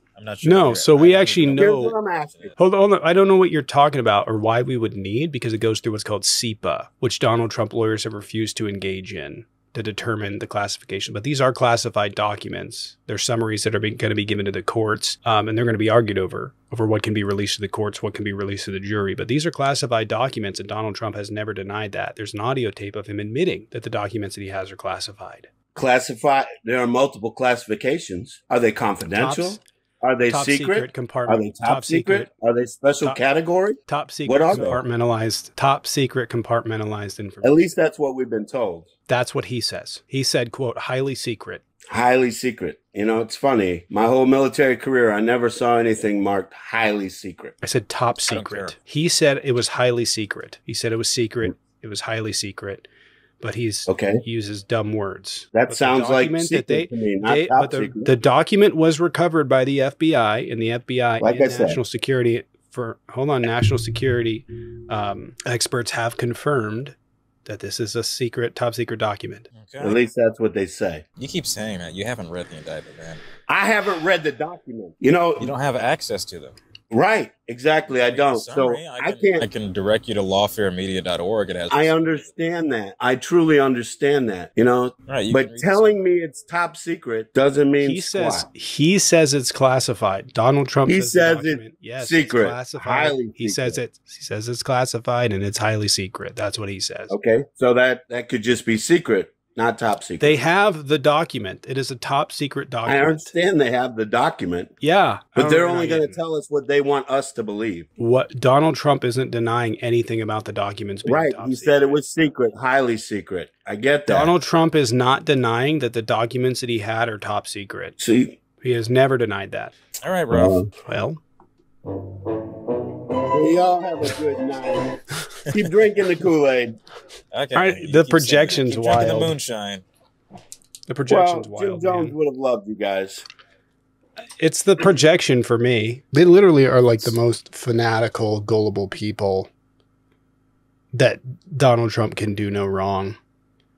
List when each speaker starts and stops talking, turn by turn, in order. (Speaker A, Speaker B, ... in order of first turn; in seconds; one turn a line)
Speaker A: 0.1-2.6
Speaker B: 0.4-1.9
Speaker C: 1.6-2.4
Speaker B: 2.5-25.5
Speaker C: 25.7-34.8
Speaker B: 29.1-29.6
Speaker B: 30.3-32.3
Speaker B: 33.9-37.6
Speaker C: 37.4-38.9
Speaker B: 39.1-41.6
Speaker C: 41.9-47.5
Speaker B: 47.6-52.9
Speaker A: 48.2-48.7
Speaker B: 53.4-69.5
Speaker C: 53.9-54.2
Speaker C: 55.5-58.1
Speaker C: 61.2-61.8
Speaker A: 69.5-70.0
Speaker C: 69.8-71.0
Speaker A: 71.2-73.2
Speaker C: 73.5-75.5
Speaker A: 75.4-76.5
Speaker C: 76.9-79.5
Speaker A: 77.9-82.3
Speaker C: 81.7-88.5
Speaker A: 85.1-86.0
Speaker B: 87.8-97.1
Speaker C: 90.8-93.8
Speaker C: 97.1-100.3
Speaker B: 100.2-103.3
Speaker C: 102.8-104.7
Speaker B: 104.8-106.2
Speaker C: 105.3-107.9
Speaker B: 108.0-112.0
Speaker C: 111.0-114.3
Speaker B: 114.1-118.0
Speaker C: 118.0-118.4
Speaker B: 118.6-119.7
Speaker A: 120.0-120.6
Speaker C: 120.3-120.7
Speaker B: 120.7-121.2
Speaker C: 123.3-125.0
Speaker C: 125.5-126.8
Speaker A: 127.3-129.8
Speaker B: 127.5-129.3
Speaker B: 130.9-132.2
Speaker C: 131.1-133.2
Speaker B: 134.4-139.5
Speaker B: 140.9-143.2